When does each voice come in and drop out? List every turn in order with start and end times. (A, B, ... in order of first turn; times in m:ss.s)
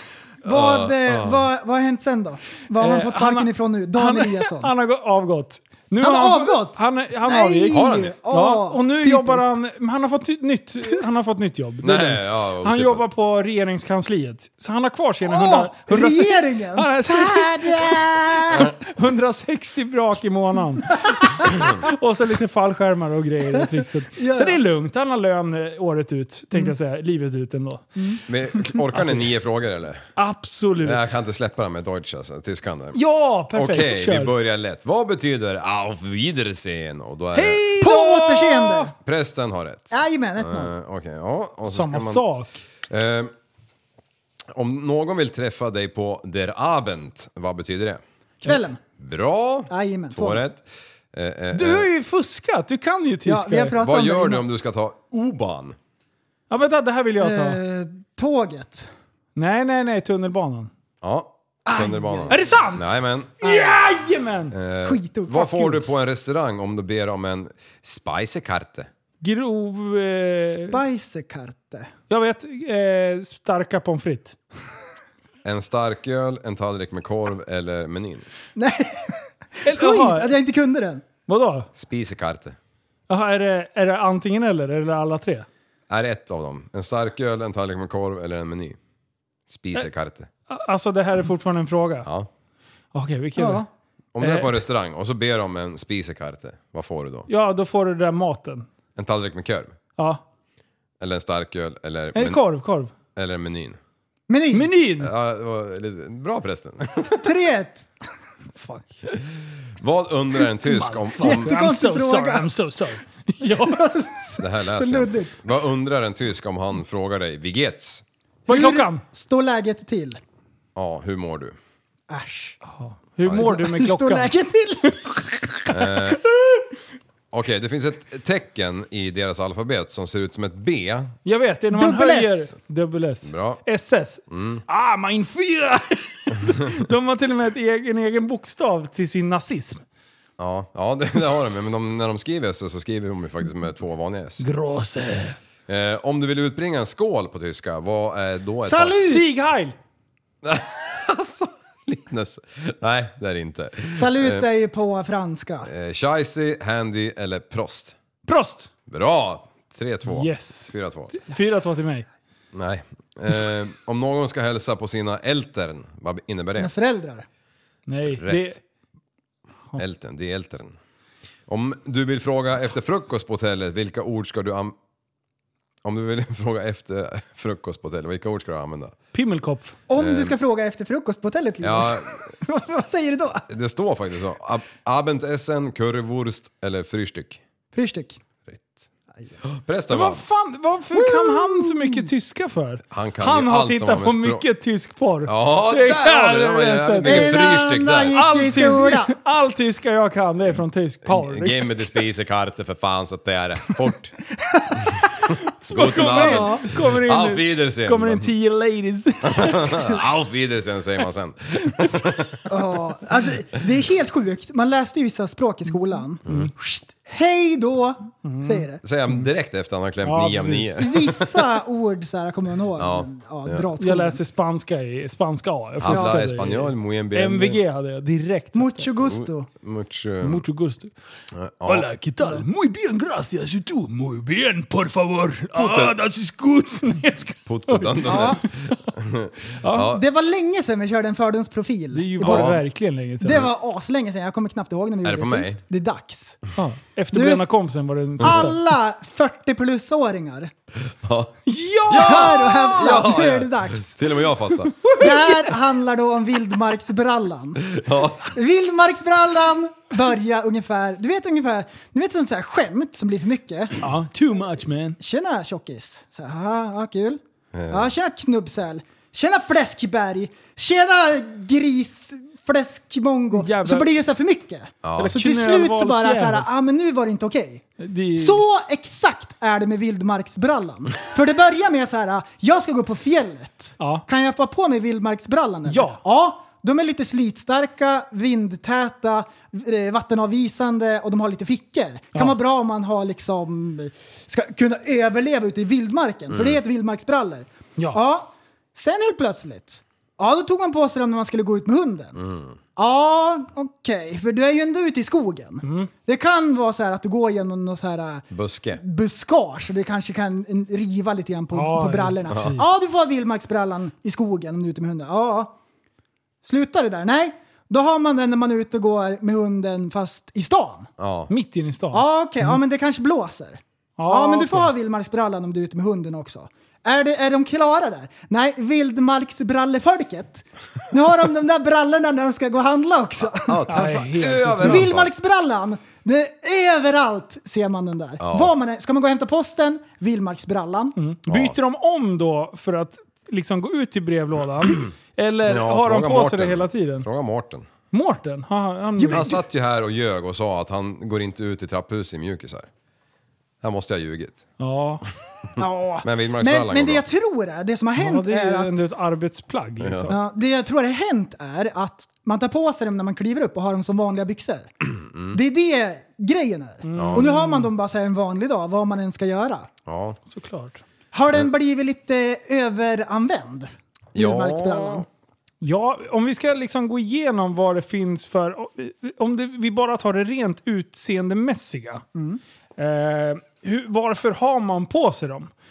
0:00.4-0:01.5 A
0:00.4-0:04.7 B
0:02.8-0:28.0 C
0:06.0-0:09.5 B
0:07.7-0:08.2 A
0:11.8-0:13.0 A
0:15.2-0:18.7 B
0:21.0-0:21.5 B
0:23.6-0:24.6 B
0:28.3-0:30.1 A
0:28.9-0:29.3 C
0:30.2-0:31.2 C
0:30.8-0:33.0 A
0:32.9-0:34.3 C
0:33.5-0:37.7 A
0:37.3-0:38.9 C
0:37.8-0:38.9 B
0:39.0-0:42.2 A
0:39.9-0:40.7 B
0:41.7-0:42.6 C
0:42.8-0:43.3 A
0:44.5-0:48.0 A
0:48.4-0:48.8 B
0:49.0-0:51.9 A
0:49.7-0:50.4 B
0:51.5-0:53.8 C
0:53.3-0:54.4 B
0:53.8-0:55.8 A
0:56.5-0:57.6 C
0:57.2-0:58.9 B
0:59.4-1:00.7 C
1:01.0-1:03.4 A
1:01.7-1:02.4 B
1:02.3-1:04.5 C
1:03.4-1:03.8 B
1:04.5-1:08.9 A
1:04.8-1:05.8 B
1:09.2-1:10.8 C
1:10.5-1:11.9 B
1:12.1-1:14.4 C
1:15.4-1:18.3 A
1:18.6-1:21.0 B
1:19.6-1:20.3 C
1:21.3-1:21.7 C
1:21.8-1:22.6 A
1:23.1-1:25.5 C
1:25.9-1:28.8 A
1:29.5-1:30.3 A
1:30.5-1:32.1 C
1:32.0-1:32.3 A
1:32.9-1:33.6 C
1:33.4-1:33.7 B
1:34.2-1:37.3 A
1:34.2-1:34.6 C
1:37.3-1:38.7 C
1:39.0-1:39.8 A
1:41.0-1:42.4 A
1:42.2-1:42.9 C
1:43.2-1:43.8 A
1:44.3-1:44.7 B
1:44.5-1:45.1 C
1:45.0-1:47.3 A
1:47.0-1:47.9 B
1:48.6-1:49.0 C
1:49.8-1:51.5 A
1:50.6-1:53.8 C
1:51.2-1:52.5 B
1:53.4-1:55.4 B
1:54.4-1:58.0 A
1:58.5-1:59.0 C
1:58.5-2:00.2 B
2:00.8-2:01.6 A
2:02.1-2:02.6 B
2:02.6-2:04.3 C
2:03.3-2:05.1 B
2:05.7-2:06.2 A
2:07.3-2:11.2 A
2:11.2-2:19.8 C
2:11.7-2:12.5 B
2:13.2-2:13.6 A
2:14.3-2:14.6 A
2:20.4-2:24.4 A
2:24.4-2:25.4 C
2:25.7-2:29.2 A
2:28.6-2:29.3 B
2:29.0-2:29.8 C
2:30.4-2:34.5 A
2:33.9-2:35.7 B
2:35.6-2:38.0 A
2:38.3-2:38.7 C
2:38.9-2:41.2 A
2:40.1-2:42.1 C
2:42.5-2:46.7 A
2:46.6-2:47.3 B
2:47.9-2:48.6 C
2:48.1-2:48.6 A
2:49.8-2:50.8 A
2:51.5-2:54.8 A
2:55.8-2:59.0 A
2:59.1-2:59.8 C
2:59.9-3:03.5 B
3:00.0-3:00.4 A
3:01.6-3:02.3 A
3:03.5-3:07.4 A
3:07.7-3:08.2 B
3:08.4-3:08.9 A
3:09.4-3:10.2 A
3:09.9-3:17.5 C
3:10.9-3:12.0 B
3:12.9-3:14.4 A
3:15.3-3:18.3 A
3:17.0-3:19.2 B
3:18.1-3:21.7 C
3:21.0-3:24.2 A
3:24.5-3:24.8 B
3:25.6-3:30.0 C
3:25.7-3:28.3 A
3:26.1-3:26.7 B
3:29.2-3:32.7 A
3:32.5-3:38.8 B
3:38.2-3:38.6 C
3:38.8-3:41.6 A
3:40.0-3:40.8 C
3:40.8-3:44.2 B
3:42.8-3:43.7 A
3:43.8-3:48.9 C
3:45.8-3:47.6 A
3:45.8-3:46.2 B
3:48.6-3:49.5 B
3:49.0-3:50.5 A
3:50.2-3:50.9 C
3:51.3-3:51.9 A
3:51.6-3:58.7 C
3:55.5-3:56.0 A
3:57.5-4:00.0 A
3:58.1-3:58.4 B
3:59.6-3:59.9 C
3:59.8-4:02.6 B
4:01.9-4:03.5 C
4:02.2-4:02.6 A
4:03.2-4:06.4 B
4:05.0-4:05.6 A
4:06.6-4:08.6 C
4:07.1-4:07.4 B
4:08.2-4:10.5 B
4:08.2-4:08.5 A
4:11.0-4:14.9 A
4:11.5-4:13.1 C
4:12.0-4:14.0 B
4:14.8-4:15.4 C
4:15.0-4:23.8 B
4:17.7-4:18.3 A
4:23.8-4:25.0 C
4:25.0-4:37.7 B
4:27.5-4:27.9 A
4:33.3-4:33.9 C
4:34.8-4:35.2 A
4:35.0-4:36.5 C
4:37.8-4:38.4 C
4:38.2-5:02.2 B
4:43.8-4:44.0 C
4:45.7-4:46.0 C
4:56.3-4:56.6 A
5:02.2-5:02.6 A
5:02.8-5:15.6 B
5:05.6-5:05.9 C
5:08.3-5:08.8 A
5:11.5-5:12.6 C
5:12.3-5:12.6 A
5:16.4-5:20.9 B
5:21.0-5:21.3 A
5:21.3-5:22.6 C
5:21.9-5:41.0 B
5:24.0-5:24.7 C
5:33.3-5:35.1 A
5:33.7-5:34.9 C
5:38.2-5:38.5 A
5:41.0-5:47.1 C
5:41.3-5:41.6 A
5:45.4-5:47.7 A
5:47.9-5:49.3 C
5:49.0-5:49.4 B
5:49.1-5:52.7 A
5:53.6-5:54.5 A
5:54.6-5:55.1 C
5:55.6-5:58.8 B
5:56.0-5:57.0 A
5:58.0-6:00.2 C
5:59.8-6:00.2 A
6:00.1-6:04.7 B
6:05.0-6:05.4 A
6:05.3-6:09.7 B
6:06.8-6:07.7 C
6:06.9-6:07.3 A
6:09.9-6:10.2 A
6:10.3-6:10.8 C
6:11.1-6:15.1 B
6:14.2-6:15.1 A
6:15.6-6:22.0 C
6:22.2-6:22.4 B
6:22.8-6:25.5 C